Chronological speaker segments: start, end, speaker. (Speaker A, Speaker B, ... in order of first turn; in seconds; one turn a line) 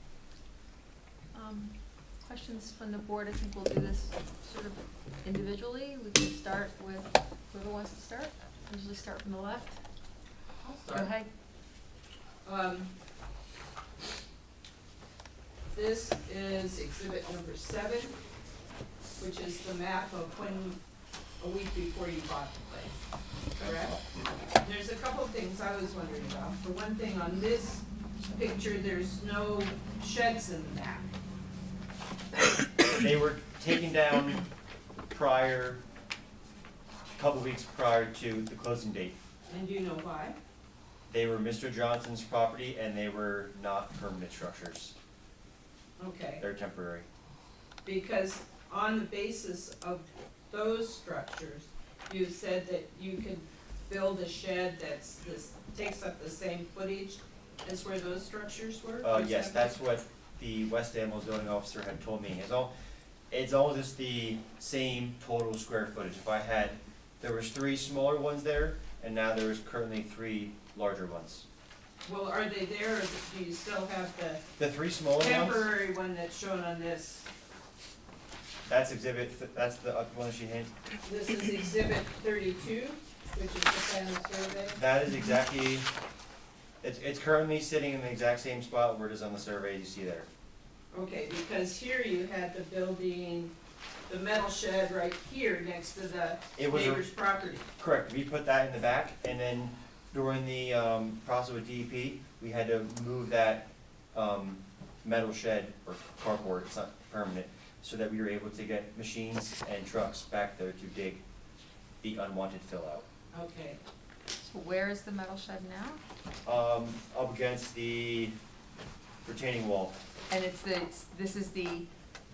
Speaker A: 1.3-9.8
Speaker B: 10.6-11.1
Speaker A: 10.9-11.3
Speaker B: 12.4-12.9
Speaker B: 15.7-18.1
Speaker B: 19.2-20.8
Speaker B: 21.4-23.0
Speaker B: 23.6-23.9
Speaker B: 24.6-31.1
Speaker C: 32.8-34.4
Speaker C: 35.1-35.8
Speaker C: 37.1-39.2
Speaker B: 39.5-40.4
Speaker C: 41.1-44.9
Speaker B: 46.0-46.4
Speaker C: 46.4-47.0
Speaker B: 47.8-59.7
Speaker C: 59.0-62.7
Speaker C: 63.3-71.4
Speaker B: 72.0-74.4
Speaker C: 74.6-75.7
Speaker B: 75.2-77.2
Speaker C: 78.7-80.7
Speaker B: 81.0-84.8
Speaker C: 84.7-85.9
Speaker C: 86.8-90.3
Speaker B: 90.9-93.5
Speaker B: 94.1-97.7
Speaker C: 96.5-97.1
Speaker C: 97.8-111.2
Speaker C: 112.0-113.0
Speaker B: 113.3-113.8
Speaker A: 114.4-116.0
Speaker C: 116.4-118.4
Speaker C: 119.2-120.0
Speaker A: 120.3-121.9